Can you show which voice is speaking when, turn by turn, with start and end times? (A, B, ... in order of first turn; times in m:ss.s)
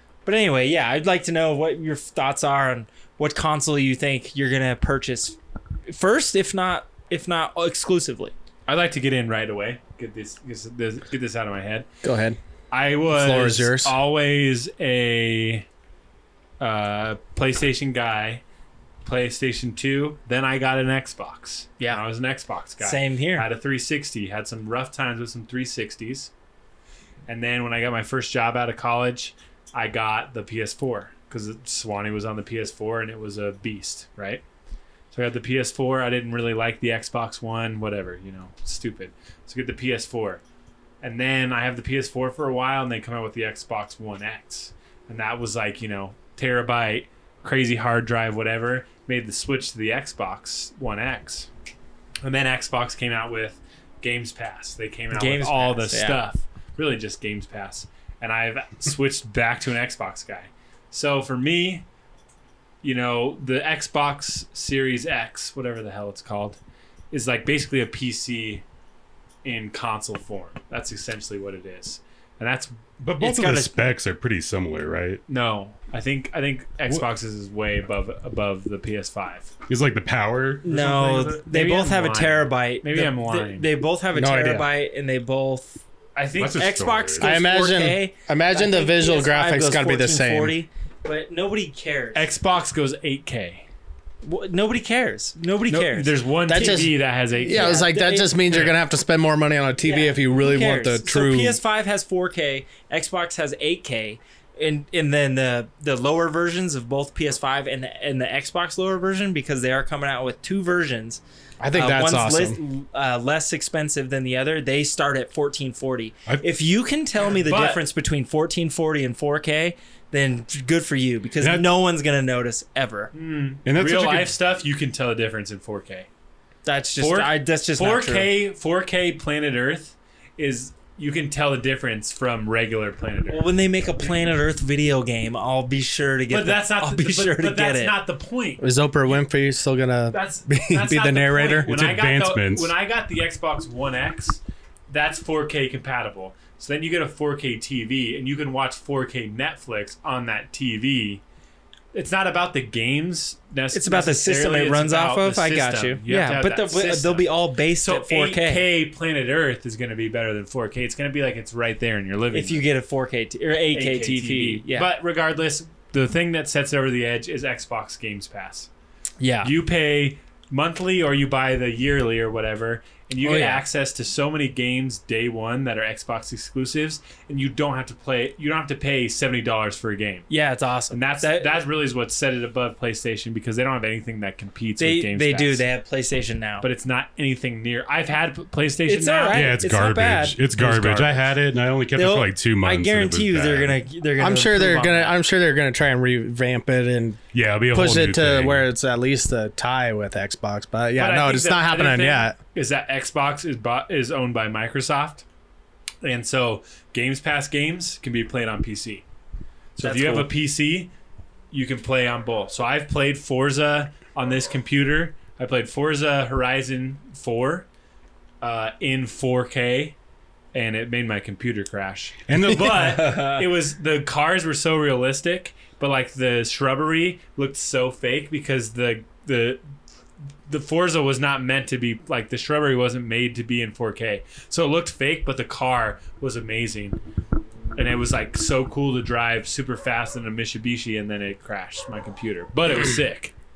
0:00.2-0:08.3 A
0:08.7-0:11.9 B
0:12.0-0:12.4 C
0:12.7-0:15.6 B
0:13.1-0:14.0 C
0:16.6-0:18.4 B
0:19.0-0:26.3 B
0:22.8-0:23.5 A
0:27.3-0:34.4 B
0:35.1-0:40.4 B
0:41.0-0:51.5 B
0:52.2-1:01.8 B
0:55.1-0:56.2 A
1:02.8-1:06.6 B
1:07.1-1:08.6 B
1:09.4-1:12.8 B
1:13.0-1:15.2 D
1:13.2-1:14.0 A
1:15.3-1:19.5 B
1:19.7-1:20.8 D
1:20.6-1:25.8 A
1:20.7-1:23.7 B
1:24.1-1:24.7 C
1:26.2-1:26.7 B
1:26.4-1:27.4 D
1:26.4-1:32.3 A
1:27.2-1:30.6 C
1:32.2-1:33.7 B
1:34.2-1:36.9 A
1:35.7-1:37.8 B
1:36.5-1:41.6 C
1:37.4-1:38.4 A
1:39.8-1:51.2 A
1:51.6-1:52.6 C
1:51.7-2:03.1 A
1:57.4-1:57.8 B
2:01.4-2:01.7 D
2:03.1-2:06.1 B
2:03.6-2:04.3 D
2:06.6-2:08.3 A
2:07.0-2:13.5 B
2:13.3-2:18.0 A
2:16.3-2:18.6 B
2:18.6-2:21.7 C
2:20.1-2:31.2 B
2:21.6-2:22.7 D
2:31.9-2:42.6 B
2:33.7-2:38.7 A
2:42.3-2:44.9 A
2:43.7-2:48.7 B
2:49.2-2:49.5 A
2:49.4-3:00.3 B
2:53.2-2:53.6 A
3:00.3-3:01.6 A
3:00.9-3:05.7 B
3:04.8-3:06.6 A
3:06.6-3:09.5 B
3:08.9-3:11.0 A
3:09.3-3:13.8 D
3:10.6-3:11.0 C
3:11.9-3:15.2 A
3:14.2-3:22.4 C
3:17.3-3:18.7 D
3:21.0-3:25.2 B
3:26.0-3:29.0 B
3:29.8-3:30.9 B
3:29.8-3:30.3 A
3:31.5-3:37.7 B
3:38.4-3:40.0 B
3:40.5-3:49.6 B
3:42.3-3:43.2 D
3:50.5-3:57.0 B
3:57.8-4:03.3 B